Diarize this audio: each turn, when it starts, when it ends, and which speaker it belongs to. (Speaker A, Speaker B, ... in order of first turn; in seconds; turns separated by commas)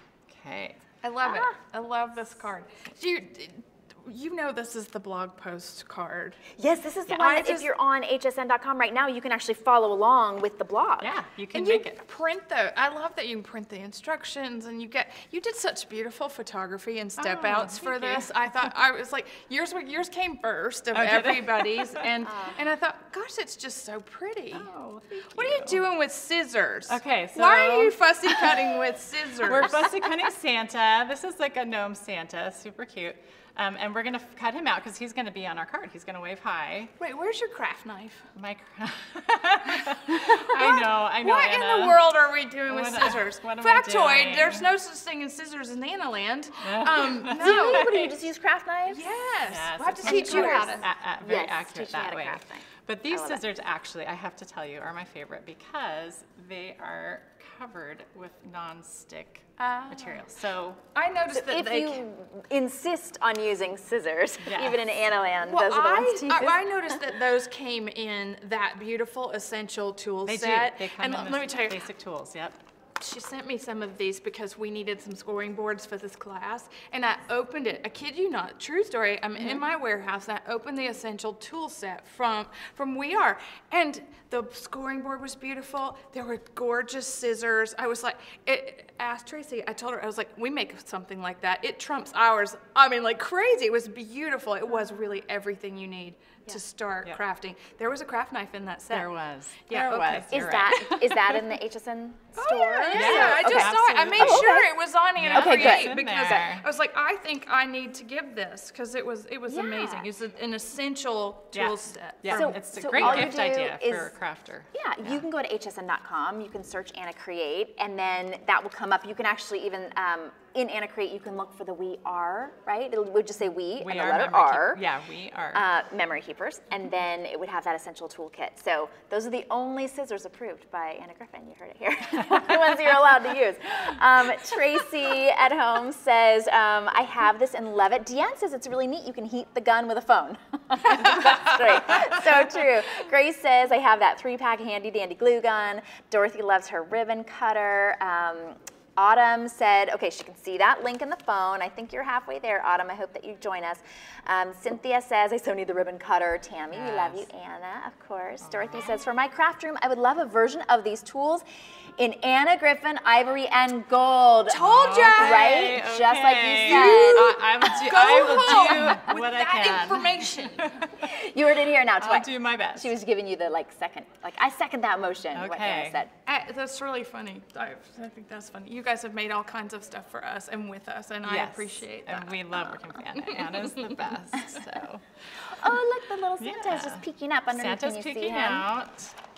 Speaker A: 0.3-0.8, Speaker B: 1.0-6.4, Speaker C: 1.2-1.6, Speaker C: 6.6-11.1, Speaker A: 7.1-7.4, Speaker B: 7.2-7.7, Speaker A: 11.0-12.0, Speaker B: 11.5-24.7, Speaker A: 17.2-18.7, Speaker A: 20.9-22.3, Speaker C: 22.2-22.6, Speaker A: 24.5-25.8, Speaker B: 25.3-29.9, Speaker A: 26.9-28.6, Speaker A: 29.4-36.9, Speaker B: 37.0-38.3, Speaker A: 38.4-42.0, Speaker B: 40.2-47.9, Speaker A: 42.7-44.6, Speaker A: 46.6-48.1, Speaker C: 47.3-49.1, Speaker B: 48.9-50.8, Speaker A: 49.5-60.8, Speaker C: 50.0-53.4, Speaker B: 59.6-60.2, Speaker B: 60.9-62.0, Speaker C: 61.3-67.0, Speaker A: 64.4-64.9, Speaker B: 65.4-71.9, Speaker A: 70.2-72.6, Speaker B: 73.0-99.1, Speaker A: 98.9-100.9, Speaker B: 99.7-101.5, Speaker C: 100.3-104.7, Speaker B: 102.3-113.3, Speaker A: 102.9-104.6, Speaker A: 105.2-106.6, Speaker C: 105.3-106.5, Speaker C: 109.5-110.1, Speaker A: 111.5-115.2, Speaker C: 112.3-114.1, Speaker C: 114.7-124.8, Speaker A: 123.8-125.6, Speaker C: 125.5-161.4, Speaker A: 156.7-157.2, Speaker A: 158.4-159.0, Speaker C: 162.0-167.3, Speaker B: 164.5-165.7, Speaker A: 164.6-171.1, Speaker B: 166.6-170.8, Speaker C: 171.0-176.1, Speaker A: 172.0-172.9, Speaker A: 175.3-176.0, Speaker B: 176.2-184.0, Speaker A: 181.2-185.0, Speaker C: 185.4-188.7, Speaker A: 186.4-189.2